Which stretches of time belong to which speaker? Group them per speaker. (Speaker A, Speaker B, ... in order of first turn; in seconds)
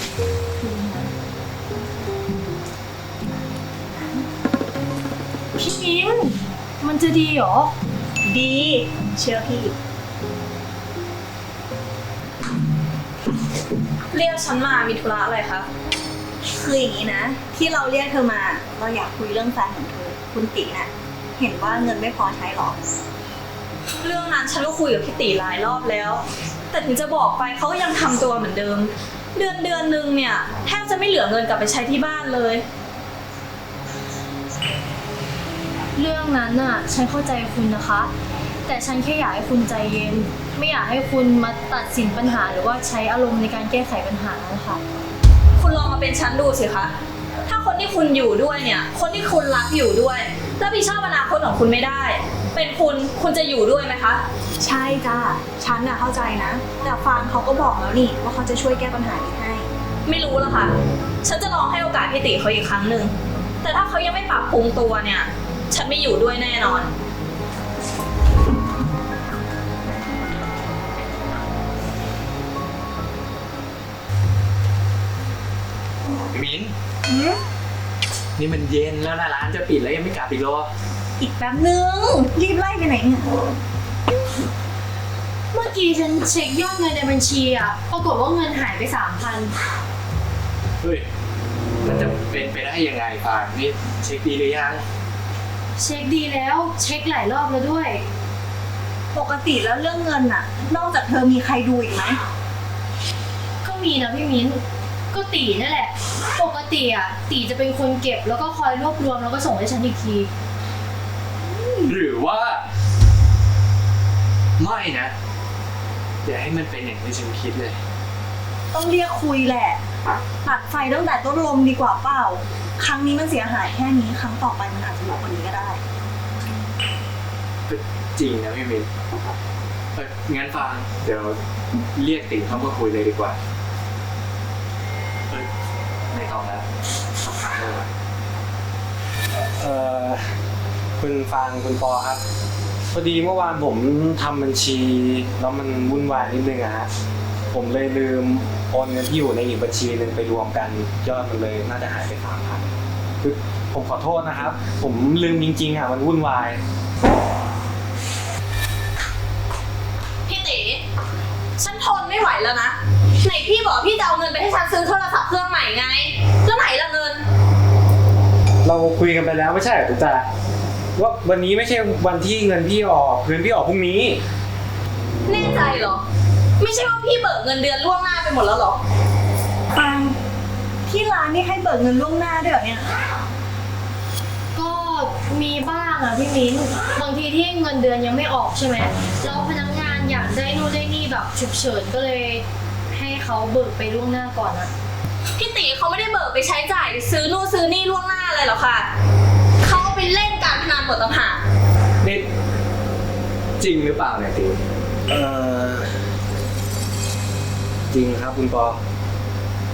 Speaker A: 5.5-7.7, 36.0-38.1, 38.7-44.8, 85.5-89.5, 95.8-98.0, 103.6-110.3, 184.5-194.7
Speaker B: 8.2-9.7, 16.6-22.8, 54.6-59.7, 77.1-77.4, 81.2-83.3, 99.1-102.2, 118.7-119.8, 120.4-125.8, 179.7-180.2, 180.9-182.9
Speaker C: 14.1-15.7, 24.0-32.6, 45.6-46.9, 47.5-54.2, 60.1-66.9, 160.3-160.8, 161.6-167.2, 175.3-176.0, 176.6-178.8, 195.4-198.9, 199.6-201.4
Speaker D: 76.3-76.7, 78.4-80.7, 90.8-91.1, 91.8-94.8, 111.9-112.6, 114.6-115.1, 116.2-117.8, 127.7-128.9, 129.9-131.4, 132.0-133.4, 136.1-136.7, 137.2-137.9, 202.0-202.3, 203.6-204.6
Speaker E: 139.6-140.2, 141.0-142.2, 142.9-146.9, 147.5-152.7, 153.2-156.6, 168.6-170.3, 171.0-174.2, 205.1-205.9, 207.9-208.8